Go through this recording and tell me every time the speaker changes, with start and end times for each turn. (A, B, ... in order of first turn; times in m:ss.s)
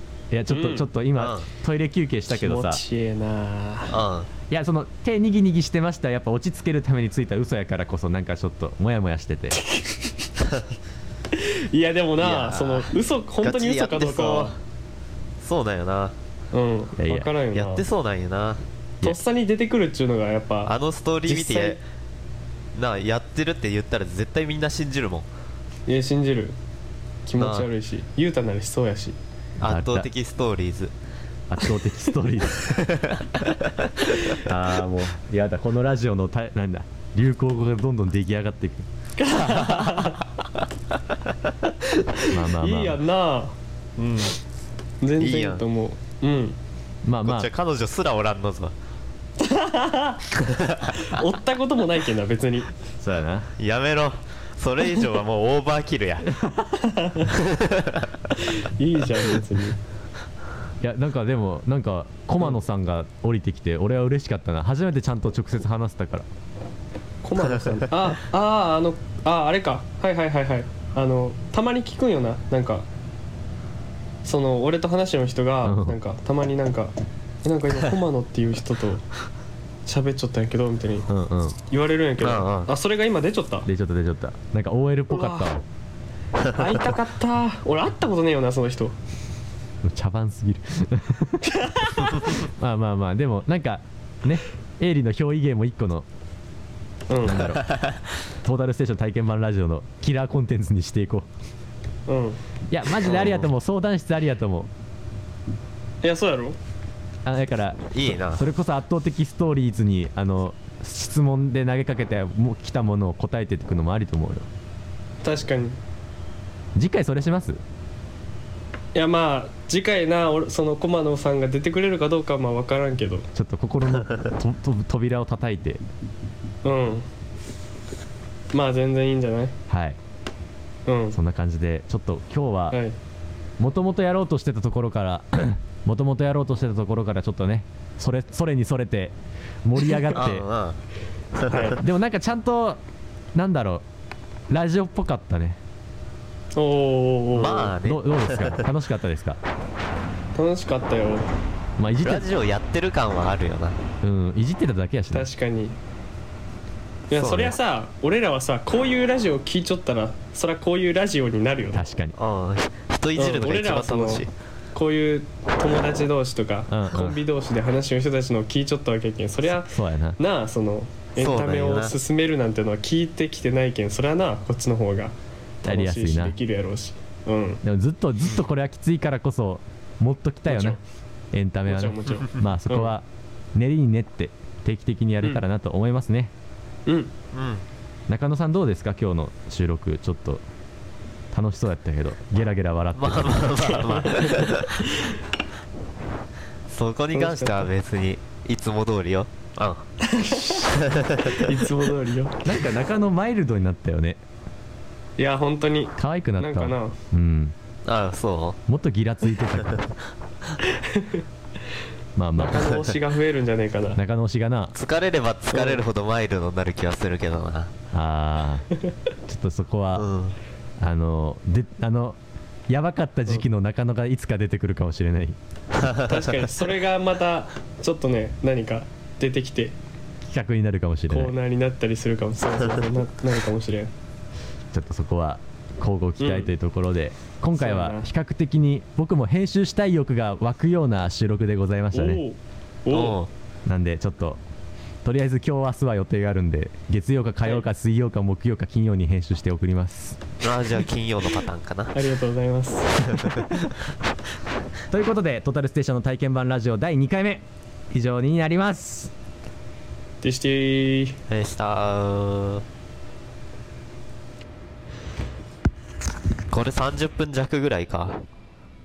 0:00.3-0:02.8 A
0:00.5-0:00.9 B
0:01.2-0:01.5 C
0:02.3-0:04.0 B
0:03.9-0:04.3 C
0:04.5-0:09.6 A
0:09.5-0:10.2 B
0:11.3-0:14.5 B
0:12.2-0:14.6 C
0:15.4-0:16.2 C
0:16.5-0:17.8 B
0:17.0-0:17.3 A
0:17.5-0:18.6 C
0:19.0-0:20.7 B
0:20.7-0:21.8 C
0:21.3-0:21.8 B
0:22.8-0:25.3 C
0:25.9-0:26.6 B
0:27.3-0:29.2 B
0:27.4-0:27.7 C
0:29.6-0:30.1 A
0:29.6-0:30.9 C
0:31.5-0:32.8 A
0:32.7-0:33.6 C
0:34.4-0:38.9 A
0:39.2-0:40.2 B
0:39.4-0:39.9 C
0:42.3-0:43.0 A
0:42.3-0:44.2 B
0:45.0-0:46.6 B
0:45.2-0:45.6 C
0:47.0-0:47.5 A
0:47.2-0:48.7 C
0:49.4-0:50.3 B
0:50.4-0:50.9 C
0:50.9-0:52.7 B
0:53.0-0:53.5 A
0:53.6-0:56.3 C
0:56.4-0:56.7 A
0:56.8-0:57.4 B
0:57.3-0:58.1 C
0:58.4-0:59.8 B
1:00.8-1:06.3 A
1:07.2-1:12.9 B
1:14.2-1:16.9 B
1:15.6-1:16.0 A
1:17.4-1:19.1 B
1:19.9-1:21.1 B
1:21.1-1:21.6 A
1:21.7-1:23.7 B
1:22.2-1:22.7 C
1:23.7-1:25.6 A
1:25.1-1:25.5 B
1:26.5-1:29.0 B
1:29.8-1:31.5 A
1:31.4-1:32.4 B
1:32.2-1:36.1 A
1:37.1-1:37.5 B
1:37.2-1:37.7 A
1:37.6-1:37.8 C
1:38.4-1:41.3 A
1:42.1-1:42.4 B
1:42.7-1:44.7 A
1:43.1-1:43.4 C
1:46.0-1:46.6 B
1:47.2-1:54.5 A
1:47.9-1:48.4 C
1:55.2-1:55.8 B
1:56.8-1:57.6 A
1:59.0-2:03.3 B
2:03.4-2:05.8 A
2:06.6-2:07.1 B
2:08.5-2:09.6 B
2:09.7-2:10.0 A
2:10.9-2:11.2 B
2:11.1-2:12.8 A
2:13.6-2:20.5 A
2:20.1-2:20.8 C
2:21.4-2:21.6 C
2:21.5-2:21.8 B
2:21.8-2:22.8 A
2:23.4-2:23.8 A
2:24.5-2:25.6 A
2:26.6-2:27.7 B
2:27.3-2:28.6 C
2:27.8-2:29.4 A
2:30.4-2:31.3 B
2:31.8-2:32.3 A
2:32.0-2:33.8 C
2:34.0-2:35.3 A
2:35.1-2:35.8 B
2:37.1-2:41.8 B
2:37.1-2:37.6 C
2:41.7-2:42.1 A
2:42.2-2:44.3 C
2:43.2-2:57.6 B
2:46.7-2:47.2 A
2:49.6-2:50.2 A
2:51.2-2:52.0 C
2:55.6-2:56.4 A
2:57.6-3:00.8 A
3:00.5-3:00.8 B
3:01.3-3:06.3 A
3:01.7-3:02.9 B
3:06.9-3:07.1 B
3:07.3-3:07.6 C
3:08.1-3:10.4 A
3:11.3-3:13.5 A
3:13.0-3:14.8 C
3:13.6-3:15.2 B
3:16.7-3:19.8 C
3:17.1-3:17.7 B
3:20.0-3:22.5 B
3:20.5-3:21.5 C
3:22.4-3:24.2 A
3:25.2-3:27.0 B
3:26.0-3:27.6 A
3:27.8-3:28.6 C
3:28.7-3:29.8 A
3:30.6-3:31.2 B
3:32.2-3:32.8 A
3:32.4-3:34.0 B
3:34.0-3:34.7 A
3:34.7-3:37.7 C
3:35.5-3:35.8 B
3:37.9-3:38.7 A
3:39.3-3:40.0 A
3:40.0-3:40.4 C
3:40.8-3:42.2 A
3:42.7-3:45.4 A
3:45.7-3:46.5 C
3:46.0-3:49.8 B
3:50.2-3:51.3 A
3:51.1-3:53.9 B
3:54.7-4:02.2 A
3:56.2-3:56.5 B
3:57.6-3:58.1 B
4:01.9-4:03.2 B
4:02.9-4:03.3 C
4:03.7-4:04.4 A
4:05.0-4:10.2 A
4:10.4-4:12.0 C
4:11.9-4:13.3 B
4:13.2-4:13.7 A
4:14.9-4:19.1 A
4:20.2-4:21.2 B
4:21.3-4:22.6 C
4:26.5-4:28.2 C